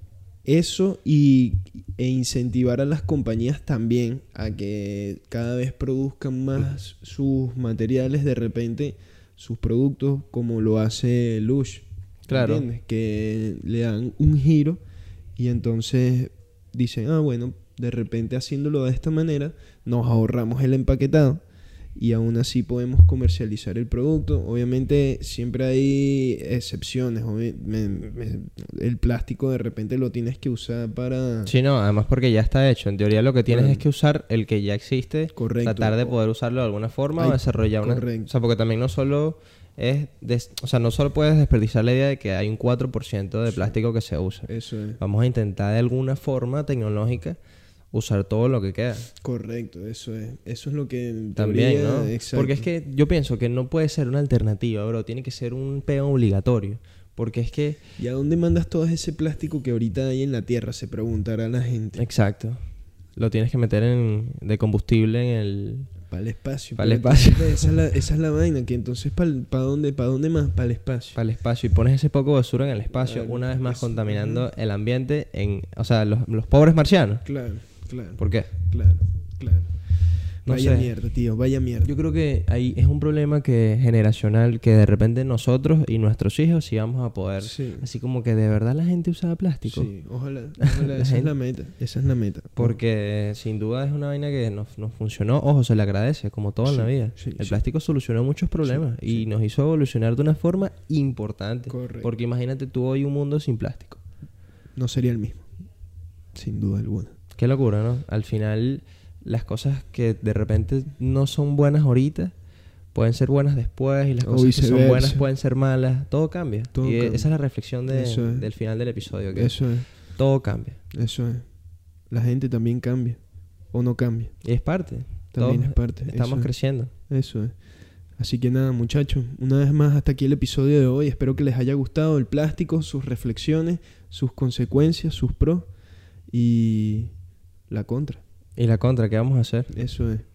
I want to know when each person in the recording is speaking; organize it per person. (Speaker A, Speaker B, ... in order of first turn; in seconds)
Speaker A: 0.5-14.8, 15.4-21.4, 22.0-31.5, 33.5-33.9, 35.3-36.2, 37.2-38.3, 43.5-43.7, 44.5-45.0, 49.2-52.7, 58.0-62.0, 66.1-71.2, 72.9-74.5, 77.2-79.8, 80.5-81.9, 87.4-87.9, 89.7-92.8, 96.7-97.6, 98.6-99.3, 101.7-102.1, 104.8-105.5, 106.3-107.2, 114.2-115.3, 116.7-117.3, 117.9-118.5, 119.3-120.0, 120.9-121.5, 122.1-124.4, 125.3-135.7, 136.3-137.1, 137.7-138.2, 139.7-140.2
Speaker B: 12.3-12.7, 31.4-47.4, 47.9-49.1, 51.4-57.8, 62.0-62.6, 63.2-65.9, 66.8-67.8, 71.1-77.3, 78.2-78.5, 80.5-80.9, 81.8-89.9, 90.6-91.3, 92.6-104.0, 107.4-112.3, 112.9-120.8, 124.4-126.9, 138.6-139.8